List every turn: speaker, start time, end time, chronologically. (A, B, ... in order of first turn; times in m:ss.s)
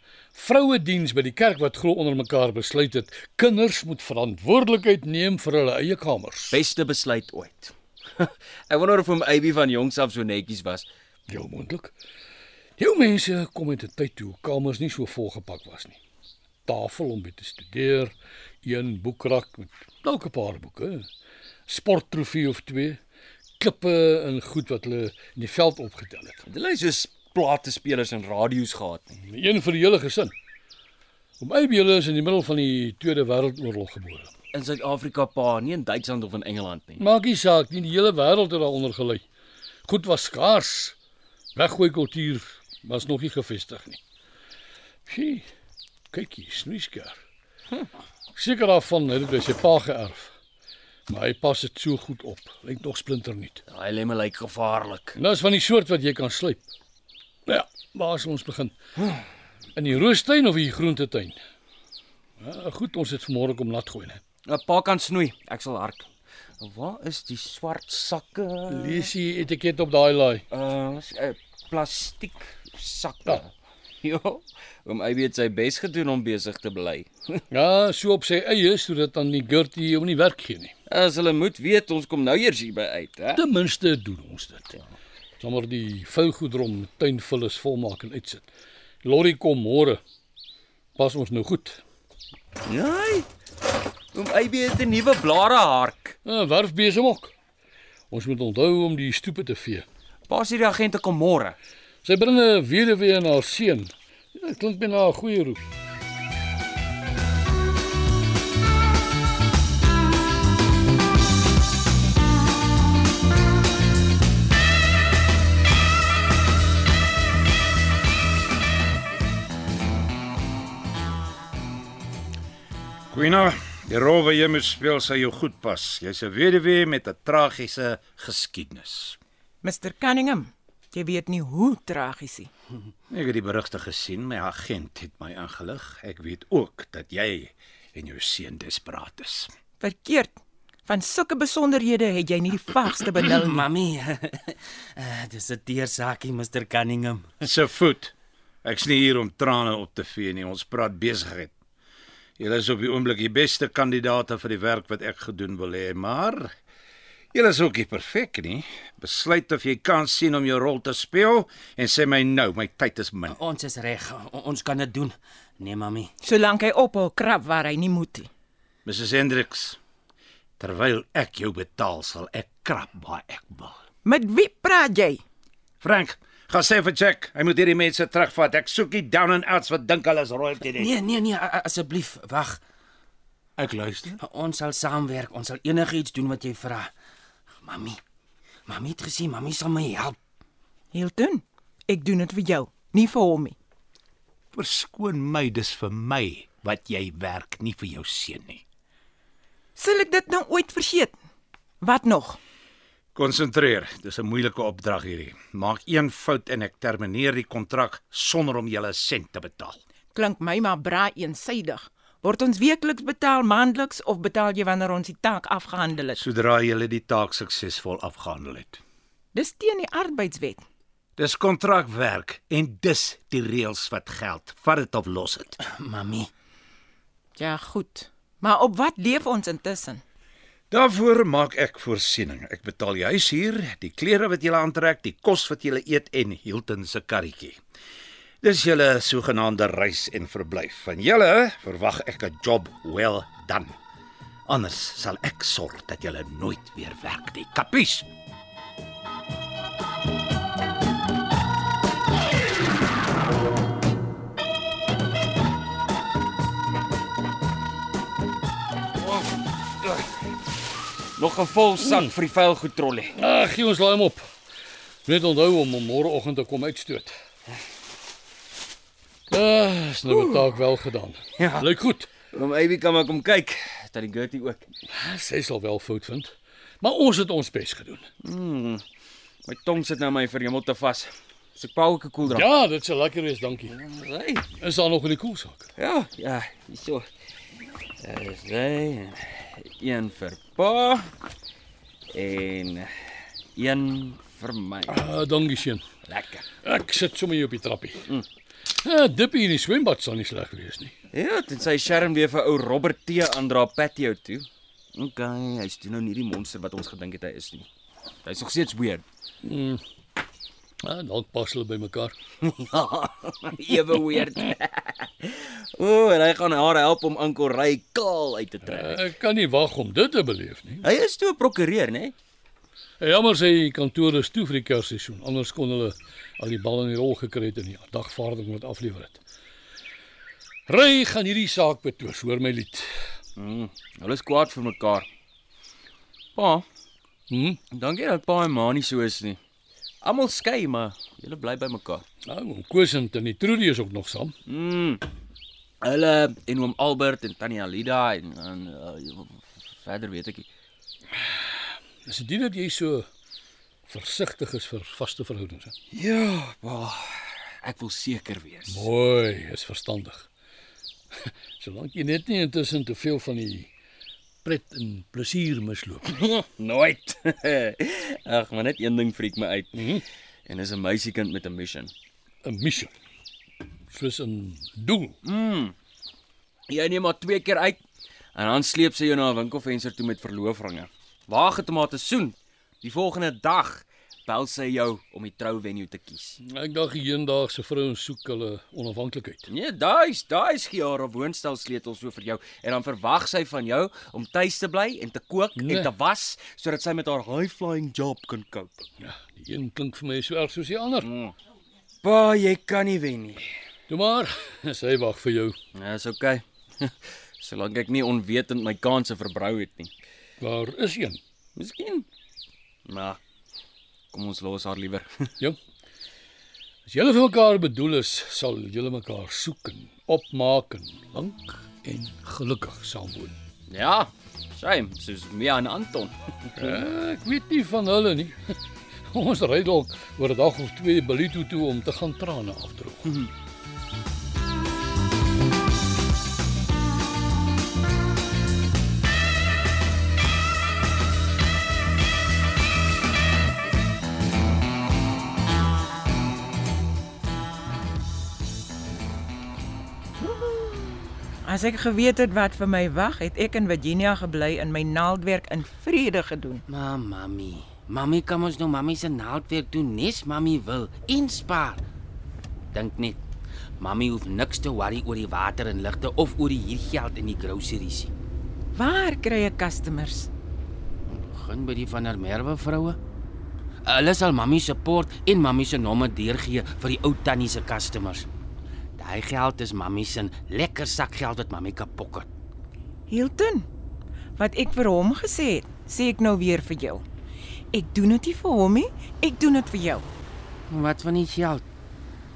0:00.3-0:06.6 A
0:06.5-0:10.8 B
0:11.3-0:11.9 A
0:12.8-0:16.0 A
0:16.6-0:21.1 A
0:21.7-0:23.0 A
0:23.6-0:26.4 A
0:26.4-0:29.1 B
0:29.2-0:30.3 A
0:31.4-0:34.3 A
0:34.5-0:37.0 B
0:37.0-0:39.2 A
0:39.8-0:41.0 A
0:41.6-0:44.0 A
0:45.1-0:45.4 A
0:46.1-0:47.2 A
0:48.4-0:50.3 A
0:51.1-0:53.6 A
0:53.7-0:55.2 B
0:55.2-0:56.6 A
0:57.5-0:58.8 A
0:59.8-1:01.4 A
1:02.4-1:04.2 A
1:04.4-1:06.1 B
1:06.6-1:09.1 B
1:08.7-1:10.4 A
1:10.5-1:13.5 B
1:14.0-1:17.4 B
1:17.5-1:20.7 A
1:20.9-1:23.4 B
1:23.3-1:24.7 A
1:25.4-1:28.5 A
1:29.0-1:30.0 A
1:31.0-1:31.8 A
1:32.6-1:33.3 B
1:34.1-1:36.2 B
1:36.2-1:37.3 A
1:38.1-1:39.8 A
1:40.3-1:41.6 B
1:42.0-1:45.6 A
2:03.1-2:09.2 C
2:09.6-2:12.5 D
2:13.1-2:19.5 C
2:19.8-2:23.6 D
2:23.3-2:27.4 E
2:27.4-2:28.1 C
2:28.6-2:31.5 C
2:32.4-2:36.5 C
2:37.3-2:43.4 C
2:43.3-2:46.1 E
2:46.2-2:48.3 D
2:48.8-2:49.8 C
2:50.6-2:53.8 C
2:54.0-2:55.2 D
2:55.8-3:00.9 C
3:00.8-3:02.6 E
3:03.6-3:04.2 C
3:04.2-3:06.9 E
3:07.6-3:08.0 E
3:08.6-3:10.2 E
3:10.9-3:13.5 D
3:14.5-3:18.6 C
3:19.8-3:21.1 D
3:21.8-3:22.4 D
3:23.1-3:29.8 C
3:30.1-3:36.2 D
3:36.2-3:38.8 C
3:39.3-3:40.6 D
3:41.2-3:45.6 C
3:45.6-3:46.3 E
3:47.4-3:50.0 D
3:50.7-3:57.6 C
3:58.4-4:03.7 C
4:04.5-4:08.1 C
4:19.8-4:20.1 B
4:21.2-4:23.1 B
4:21.8-4:22.1 A
4:23.1-4:24.2 A
4:25.0-4:27.1 A
4:29.3-4:32.1 A
4:30.1-4:30.4 B
4:31.4-4:31.7 B
4:32.3-4:34.6 B
4:34.9-4:38.1 A
4:38.2-4:38.8 B
4:39.4-4:42.5 B
4:42.3-4:43.7 A
4:43.7-4:44.5 B
4:44.6-4:45.7 A
4:45.8-4:47.1 B
4:48.0-4:51.1 B
4:52.1-4:55.0 B
4:54.9-4:55.8 A
4:56.0-4:56.4 B
4:56.6-4:58.1 A
4:58.8-5:00.9 A
5:01.1-5:07.7 B
5:08.2-5:09.0 B
5:09.4-5:09.8 A
5:10.8-5:12.1 A
5:12.4-5:19.0 B
5:18.6-5:20.8 A
5:20.8-5:22.1 B
5:23.0-5:29.2 A
5:30.7-5:32.9 A
5:33.4-5:35.1 B
5:36.4-5:36.6 B
5:37.3-5:37.6 A
5:37.7-5:39.4 B
5:40.0-5:42.0 B
5:42.2-5:44.3 A
5:44.4-5:45.0 B
5:45.8-5:50.4 B
5:51.2-5:53.1 A
5:53.9-5:55.7 A
5:55.9-5:58.9 B
5:58.7-6:00.3 A
6:01.2-6:03.7 A
6:04.4-6:06.0 A
6:06.0-6:09.8 B
6:09.8-6:10.0 A
6:10.5-6:11.9 B
6:12.4-6:12.9 A
6:13.9-6:15.2 A
6:15.2-6:15.7 B
6:16.7-6:17.8 B
6:18.3-6:26.4 B
6:26.4-6:29.5 A
6:29.5-6:38.8 B
6:35.6-6:35.9 A
6:39.0-6:41.1 A
6:41.0-6:41.3 B
6:42.0-6:43.5 B
6:43.9-6:45.6 A
6:45.7-6:49.9 B
6:50.4-6:51.2 A
6:51.6-6:52.0 B
6:52.8-6:53.2 B
6:54.1-6:55.1 B
6:56.8-7:03.4 A
7:03.7-7:06.7 B
7:06.6-7:08.6 A
7:09.1-7:13.2 A
7:30.2-7:36.6 D
7:36.7-7:41.8 E
7:42.7-7:43.2 E
7:43.8-7:48.1 E
7:48.7-7:50.3 D
7:51.1-7:53.0 E
7:53.8-7:58.3 E
7:59.0-8:02.3 E
8:03.1-8:03.7 D
8:04.4-8:07.0 D
8:07.7-8:10.1 D
8:10.7-8:11.6 E